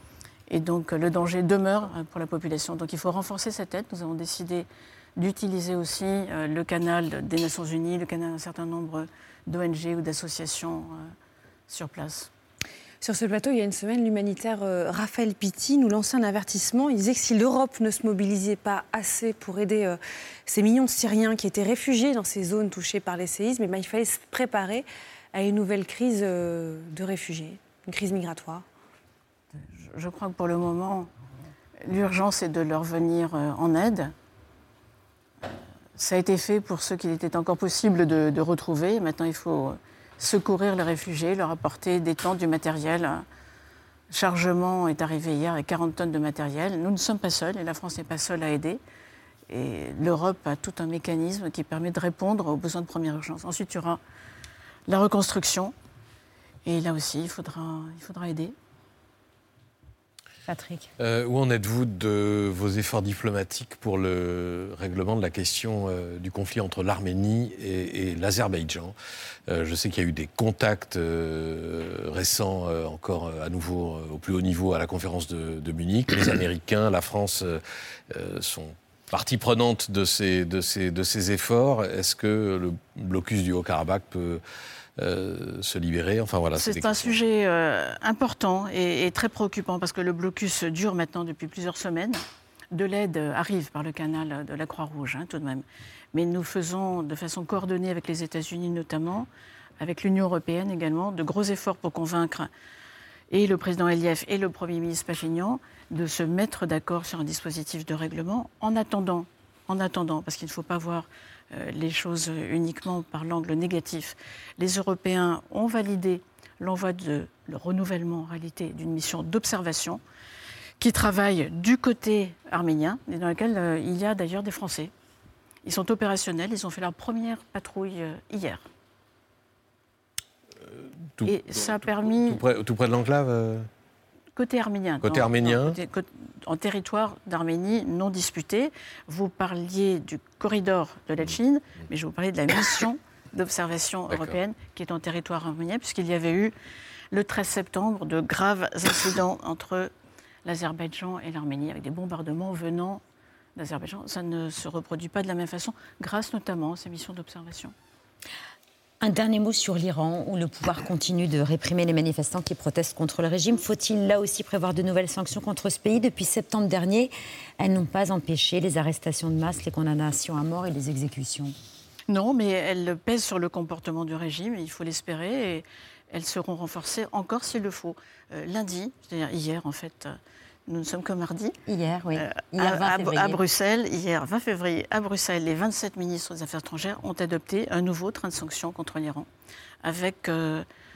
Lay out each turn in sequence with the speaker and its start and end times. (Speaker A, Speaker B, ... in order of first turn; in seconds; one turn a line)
Speaker A: 0.5-11.1
Speaker A: 11.7-12.3
Speaker B: 13.0-28.6
Speaker A: 29.6-31.1
Speaker A: 31.8-34.1
Speaker A: 36.0-43.2
Speaker A: 44.1-48.8
Speaker A: 49.5-54.0
Speaker A: 54.9-55.8
Speaker A: 56.7-58.5
Speaker C: 60.5-60.9
Speaker D: 61.0-69.0
Speaker D: 69.5-84.4
Speaker D: 85.0-87.2
Speaker A: 86.6-92.2
Speaker A: 92.7-99.3
Speaker A: 99.8-102.5
Speaker A: 103.3-120.0
Speaker A: 120.8-124.9
Speaker A: 125.6-128.7
Speaker D: 130.7-133.7
Speaker A: 131.2-132.4
Speaker A: 134.4-146.5
Speaker D: 135.0-135.8
Speaker D: 144.1-144.4
Speaker A: 147.1-149.9
Speaker A: 150.4-153.0
Speaker A: 153.6-157.7
Speaker C: 159.0-171.5
Speaker A: 172.1-181.6
Speaker C: 181.7-183.4
Speaker A: 182.2-189.3
Speaker A: 189.8-190.7